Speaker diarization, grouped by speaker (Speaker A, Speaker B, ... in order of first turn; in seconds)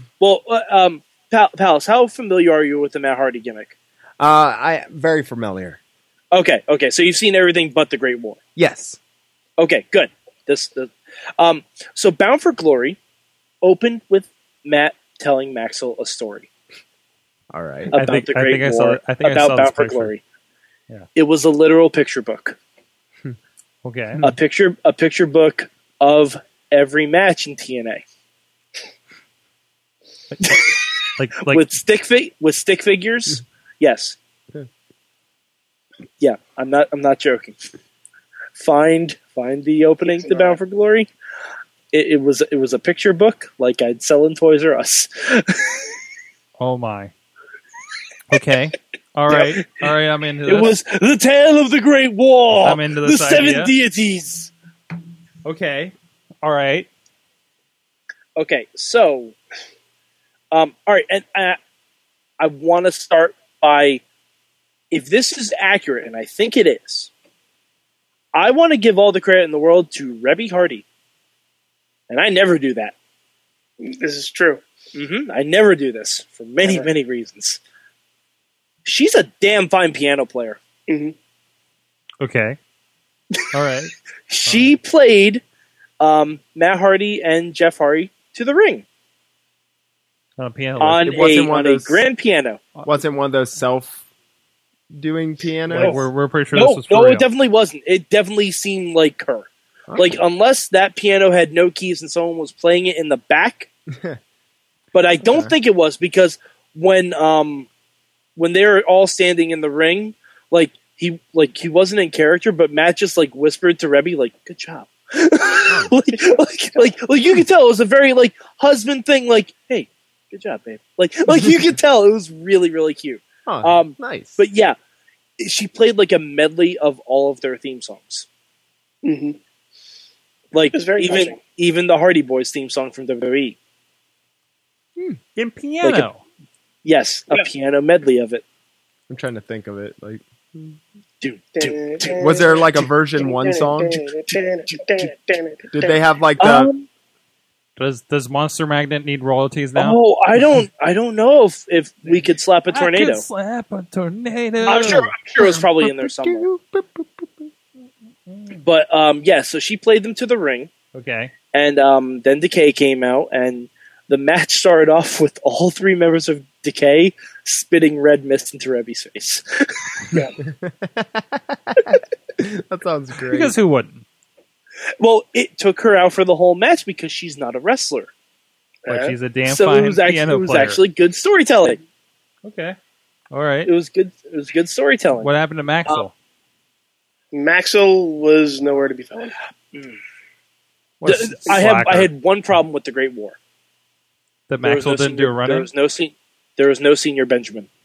Speaker A: 0.2-3.7, 6.3-8.4, 9.6-13.0, 13.6-16.5, 17.9-20.2, 21.1-22.6, 24.2-28.0, 30.4-30.8, 31.5-34.2, 36.2-37.6, 38.6-41.1, 41.9-45.9, 49.3-49.7, 50.5-54.5, 58.4-59.4, 60.5-61.6, 62.4-64.0, 64.9-67.1, 68.3-70.8, 72.1-72.9, 74.9-77.6, 78.8-80.6, 84.3-85.4, 86.0-88.8, 90.8-92.6, 96.5-103.7, 104.9-107.7, 108.4-124.8, 125.4-128.3, 130.5-133.6, 135.8-136.1, 136.8-138.4, 141.2-142.2, 146.4-146.9, 149.8-153.2, 154.6-156.5, 158.6-160.7, 161.5-170.1, 175.0-178.1, 179.4-181.8, 183.7-185.3, 191.1-193.4, 194.6-197.7
Speaker B: 4.2-5.8, 8.6-9.0, 17.5-17.9, 91.0-92.0, 92.8-94.0, 94.9-96.0, 99.9-100.2, 103.9-104.2, 105.2-105.5, 123.5-124.4, 139.1-140.8, 142.2-144.1, 145.7-146.7, 155.4-157.3, 170.4-173.6
Speaker C: 17.9-20.1, 23.9-24.2, 30.3-31.6, 46.6-47.1, 48.3-50.7, 52.6-53.7, 55.5-56.9, 82.2-82.6, 83.5-83.9, 84.5-84.7, 90.4-91.2, 95.7-97.3, 135.4-136.2, 147.8-150.0, 152.7-155.1, 158.3-158.6, 160.9-161.3, 173.3-174.1, 178.9-180.8, 182.4-182.8, 183.3-183.7, 185.2-186.1, 191.0-192.1, 194.5-195.7
Speaker D: 40.0-40.6, 73.8-74.6, 76.6-76.9, 80.9-81.1, 116.1-116.9, 129.0-129.4, 130.7-131.4, 141.6-146.0, 178.8-179.1, 187.3-189.4